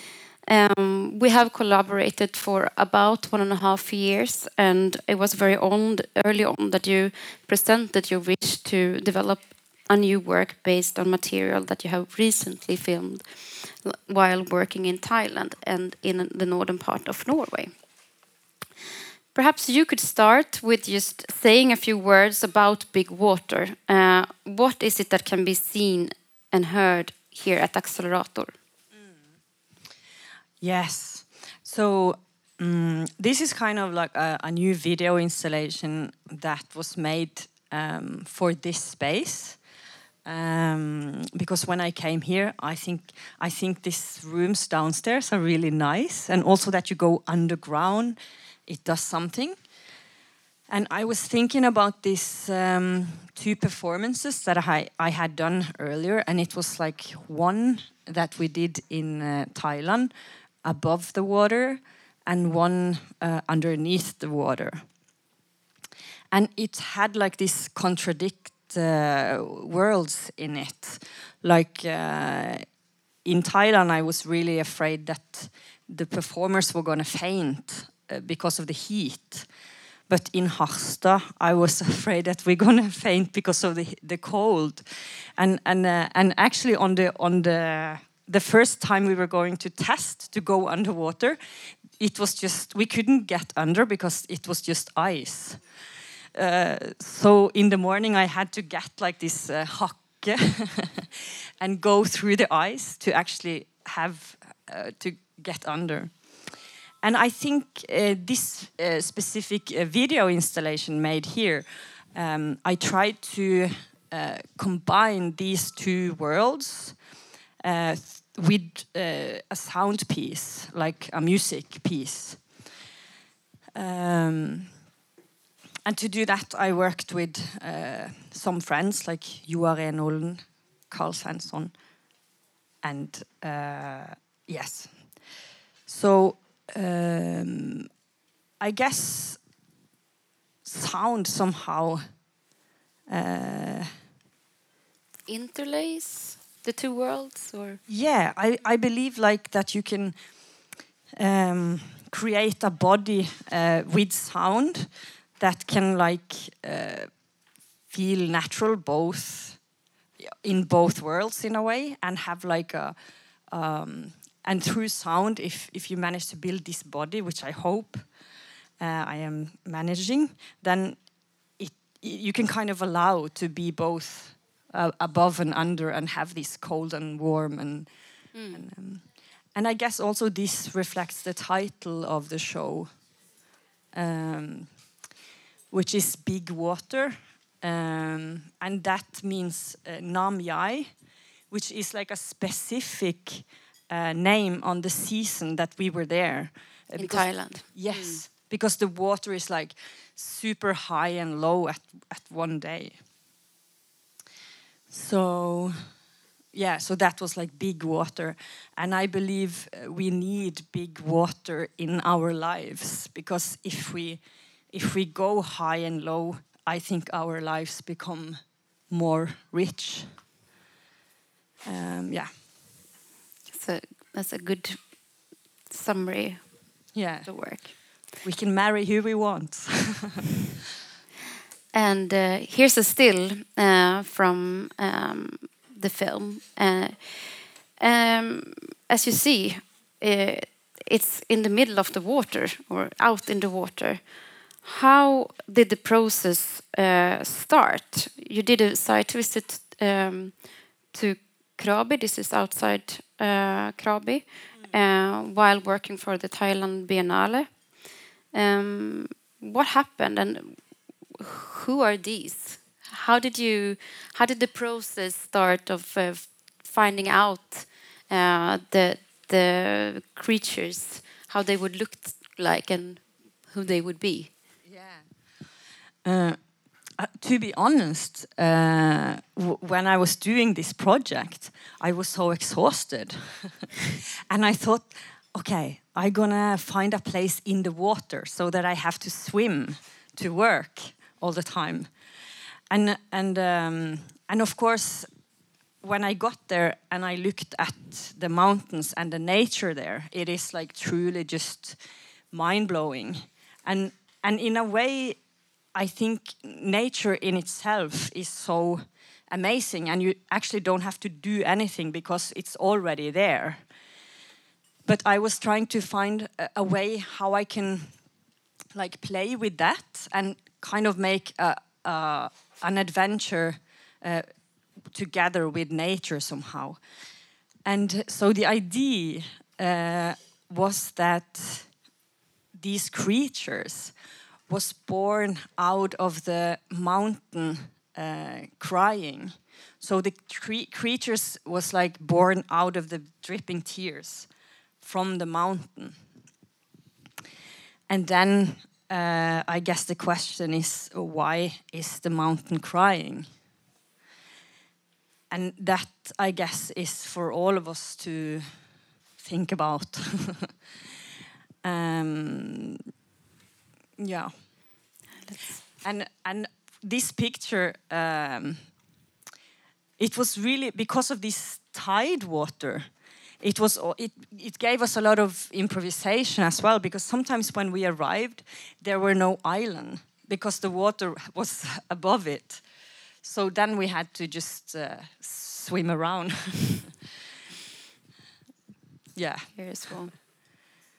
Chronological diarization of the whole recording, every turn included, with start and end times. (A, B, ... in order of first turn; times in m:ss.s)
0:00.5-0:17.8 A
0:19.3-0:28.5 A
0:30.6-0:39.6 B
0:40.2-0:49.6 B
0:50.7-1:00.1 B
1:00.6-1:04.9 B
1:06.3-1:12.7 B
1:13.2-1:19.5 B
1:20.1-1:31.4 B
1:32.0-1:35.6 B
1:36.3-1:57.0 B
1:57.6-2:02.6 B
2:03.8-2:04.7 B
2:05.8-2:11.8 B
2:12.8-2:15.3 B
2:15.9-2:17.9 B
2:18.6-2:19.4 B
2:20.6-2:22.2 B
2:23.1-2:23.9 B
2:25.3-2:27.8 A
2:27.9-2:30.2 B
2:31.1-2:37.1 B
2:37.9-2:39.6 B
2:40.2-2:43.0 B
2:43.5-2:48.1 B
2:48.8-2:57.9 B
2:58.3-2:58.6 A
2:58.5-3:03.0 B
3:03.9-3:04.8 B
3:05.7-3:10.9 B
3:11.5-3:23.0 B
3:17.0-3:18.2 A
3:24.9-3:25.9 B
3:26.5-3:40.2 B
3:41.6-3:42.3 B
3:43.5-3:45.0 A
3:45.7-3:48.0 A
3:46.9-3:50.4 B
3:51.7-4:20.6 A
4:21.2-4:34.3 A
4:34.7-4:35.1 B
4:36.0-4:43.7 B
4:44.3-4:51.9 B
4:52.7-4:55.1 B
4:55.8-5:01.8 B
5:02.3-5:13.6 B
5:14.8-5:18.0 B
5:18.7-5:26.8 B
5:27.6-5:31.8 B
5:32.5-5:33.9 B
5:34.5-5:44.3 B
5:44.8-5:46.0 B
5:47.9-5:53.3 B
5:55.3-5:58.6 B
5:59.2-6:00.5 B
6:01.6-6:02.8 B
6:04.0-6:04.6 B
6:05.2-6:05.6 A
6:05.8-6:08.7 B
6:10.0-6:12.9 B
6:13.4-6:22.6 B
6:23.2-6:27.0 B
6:29.1-6:29.9 B
6:29.6-6:30.2 A